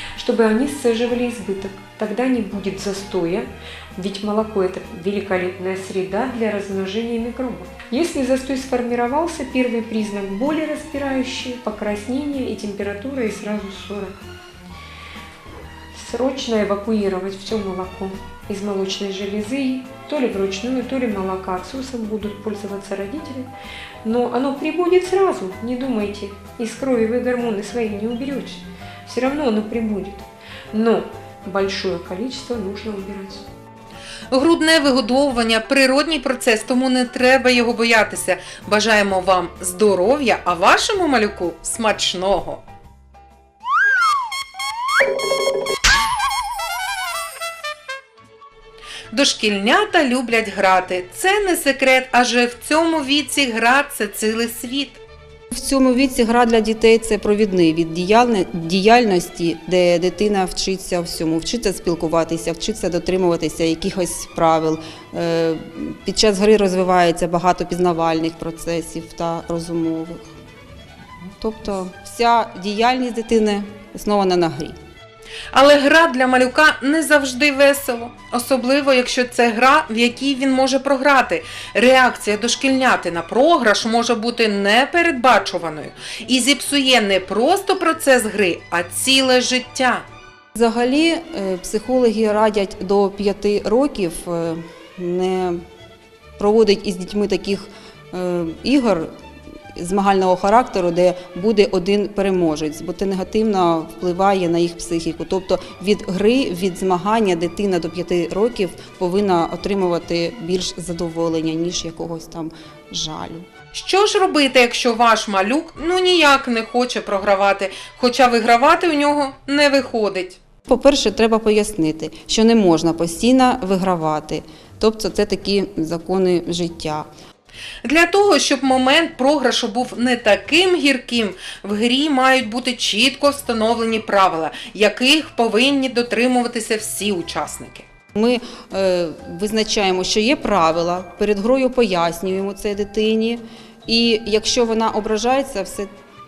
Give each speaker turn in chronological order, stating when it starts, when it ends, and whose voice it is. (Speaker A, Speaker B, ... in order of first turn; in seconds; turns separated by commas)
Speaker A: 0.2-14.2, Speaker A: 15.9-23.5, Speaker A: 24.0-33.4, Speaker B: 34.3-42.6, Speaker B: 49.1-55.0, Speaker C: 55.5-70.2, Speaker C: 71.4-74.8, Speaker B: 75.5-90.0, Speaker C: 90.5-95.6, Speaker C: 96.4-99.1, Speaker C: 99.7-113.5, Speaker B: 113.7-120.4, Speaker C: 120.7-127.1, Speaker B: 127.8-137.8, Speaker C: 138.1-145.9